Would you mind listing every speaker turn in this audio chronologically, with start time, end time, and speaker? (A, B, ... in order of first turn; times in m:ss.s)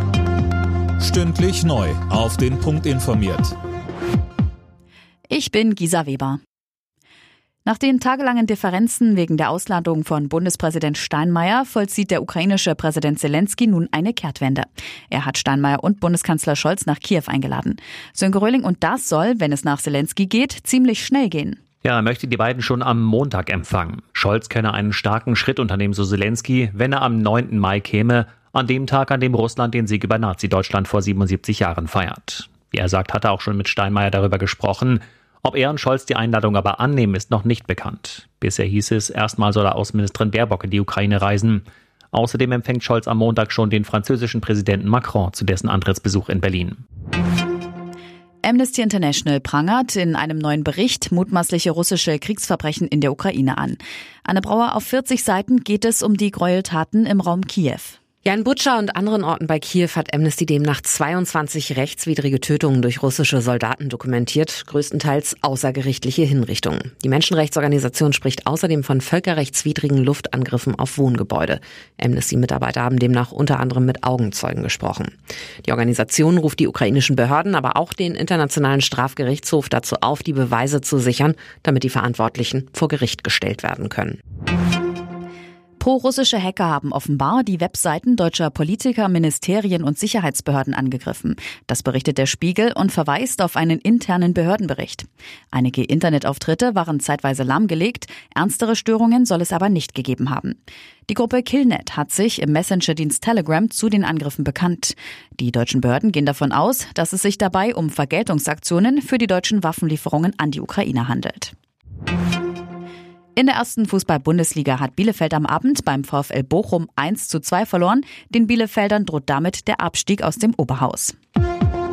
0:01.0-0:03.5 A
0:05.3-0:06.4 B
0:07.6-0:21.6 B
0:21.8-0:46.8 C
0:48.4-0:58.0 B
0:58.2-1:24.2 D
1:25.8-1:51.5 B
1:53.3-2:01.2 B